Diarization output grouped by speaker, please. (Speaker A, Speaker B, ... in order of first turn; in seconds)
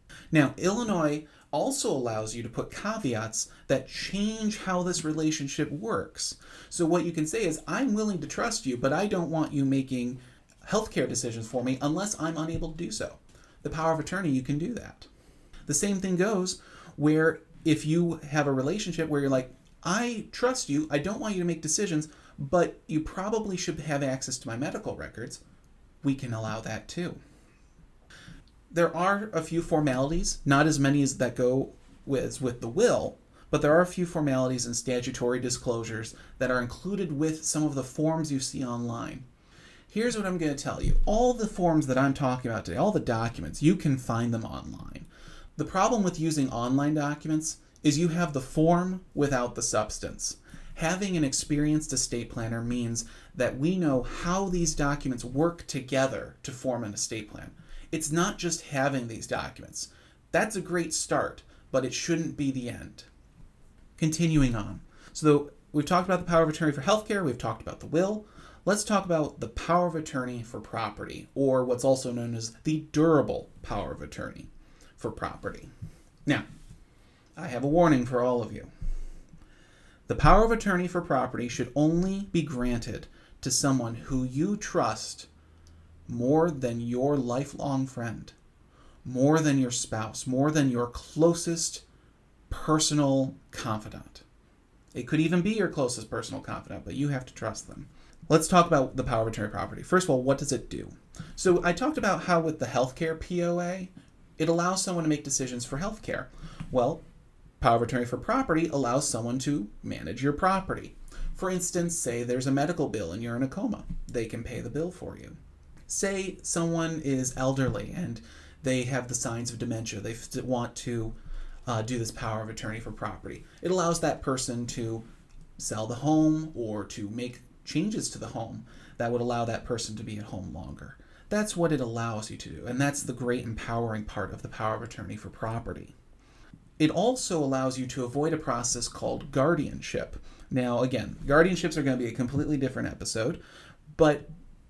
Speaker A: 0.3-15.1, 15.7-25.4, 26.0-27.2, 28.7-39.2, 39.9-63.1, 64.0-75.7, 77.3-78.7, 80.1-85.3, 86.1-88.3, 89.0-91.8, 92.5-94.2, 94.9-107.0, 107.6-121.1, 121.7-125.0, 125.6-135.9, 136.8-143.4, 143.9-144.3